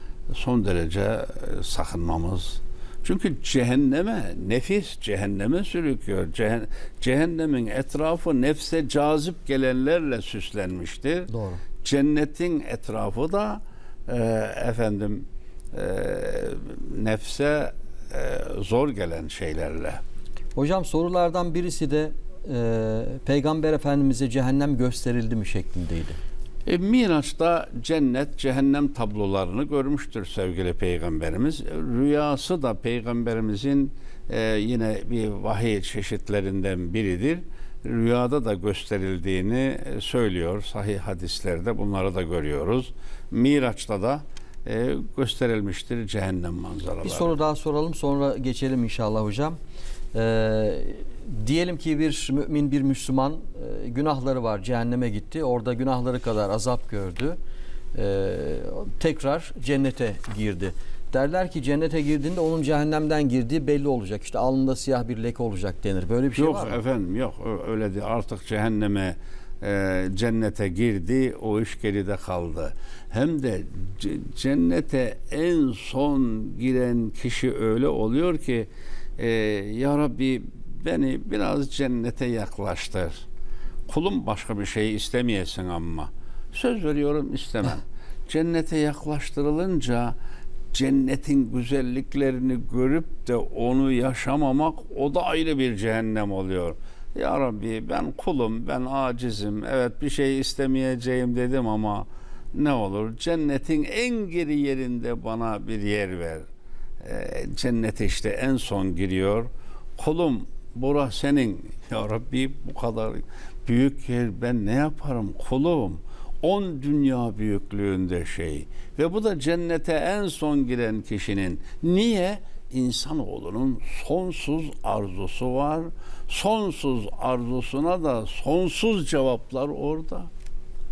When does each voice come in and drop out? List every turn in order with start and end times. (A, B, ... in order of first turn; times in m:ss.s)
0:00.3-0:11.3 A
0:11.3-0:11.6 B
0:11.8-0:20.0 A
0:20.6-0:26.2 B
0:26.7-0:47.4 A
0:47.0-0:49.6 B
0:50.1-0:57.4 B
0:57.9-1:06.8 B
1:06.4-1:23.2 A
1:23.9-1:30.2 A
1:30.7-1:46.5 A
1:47.0-2:10.3 A